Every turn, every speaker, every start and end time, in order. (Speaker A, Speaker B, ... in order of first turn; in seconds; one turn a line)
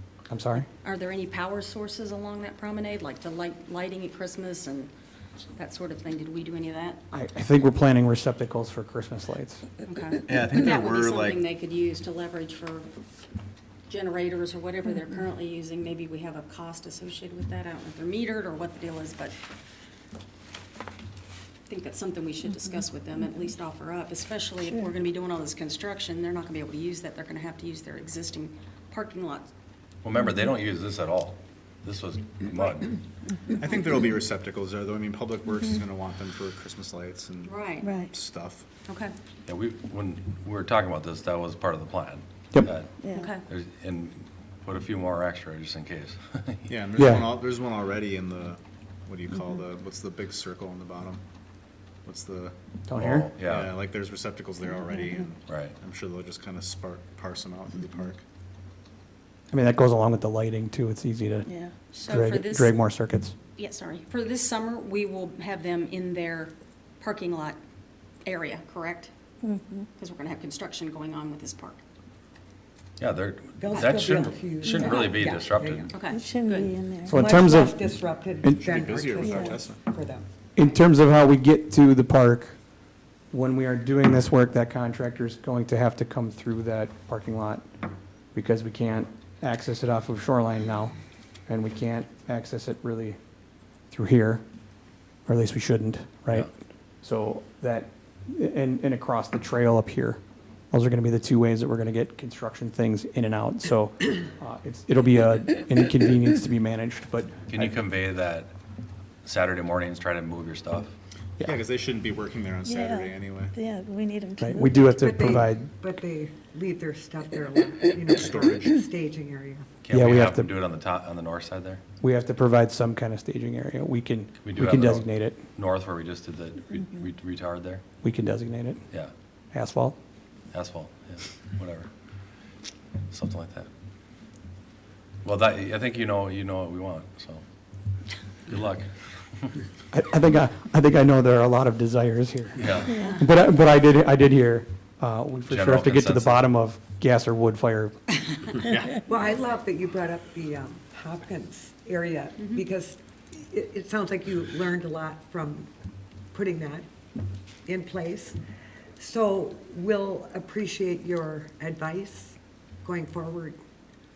Speaker A: 0.3-0.7
Speaker B: 0.8-4.9
Speaker B: 5.6-7.0
Speaker A: 7.1-9.7
Speaker B: 9.8-12.9
Speaker C: 10.3-11.4
Speaker B: 13.9-19.4
Speaker B: 21.7-29.5
Speaker D: 30.0-33.0
Speaker C: 33.5-38.7
Speaker B: 37.5-37.9
Speaker E: 37.8-38.1
Speaker B: 38.9-39.1
Speaker D: 39.5-42.9
Speaker E: 43.0-43.3
Speaker B: 43.1-43.4
Speaker D: 43.5-46.7
Speaker C: 46.7-51.2
Speaker A: 47.0-47.3
Speaker C: 52.0-52.5
Speaker A: 52.9-53.3
Speaker D: 53.0-53.8
Speaker C: 53.4-58.2
Speaker D: 55.5-55.8
Speaker A: 59.5-61.5
Speaker E: 61.5-61.7
Speaker B: 61.9-62.8
Speaker A: 62.0-63.4
Speaker B: 63.6-67.6
Speaker B: 68.3-69.1
Speaker E: 69.4-69.9
Speaker B: 70.0-71.8
Speaker D: 73.0-75.9
Speaker F: 73.6-76.0
Speaker B: 74.6-75.2
Speaker B: 75.9-76.7
Speaker E: 76.1-77.3
Speaker A: 77.0-77.8
Speaker F: 77.2-80.3
Speaker C: 78.5-79.8
Speaker E: 79.2-79.6
Speaker A: 80.5-82.6
Speaker A: 83.3-87.6
Speaker A: 88.3-91.0
Speaker A: 91.5-93.2
Speaker A: 93.9-94.4
Speaker A: 95.3-107.8
Speaker D: 107.5-108.5
Speaker D: 109.2-110.9
Speaker C: 111.4-113.5
Speaker E: 112.6-114.9
Speaker A: 114.4-115.7
Speaker F: 115.0-119.7
Speaker C: 118.2-118.8
Speaker D: 119.8-121.8
Speaker A: 119.9-120.5
Speaker A: 122.0-125.4
Speaker D: 124.4-127.8
Speaker A: 128.0-128.8
Speaker A: 129.5-130.0
Speaker D: 130.5-131.9
Speaker D: 133.1-133.7
Speaker D: 135.2-137.4
Speaker D: 138.5-139.5
Speaker A: 139.9-148.1
Speaker D: 142.6-143.0
Speaker B: 142.9-143.3
Speaker D: 145.5-146.5
Speaker D: 148.6-149.0
Speaker F: 149.0-155.7
Speaker B: 152.4-152.6
Speaker F: 156.3-156.9
Speaker F: 157.7-158.4
Speaker F: 159.0-163.6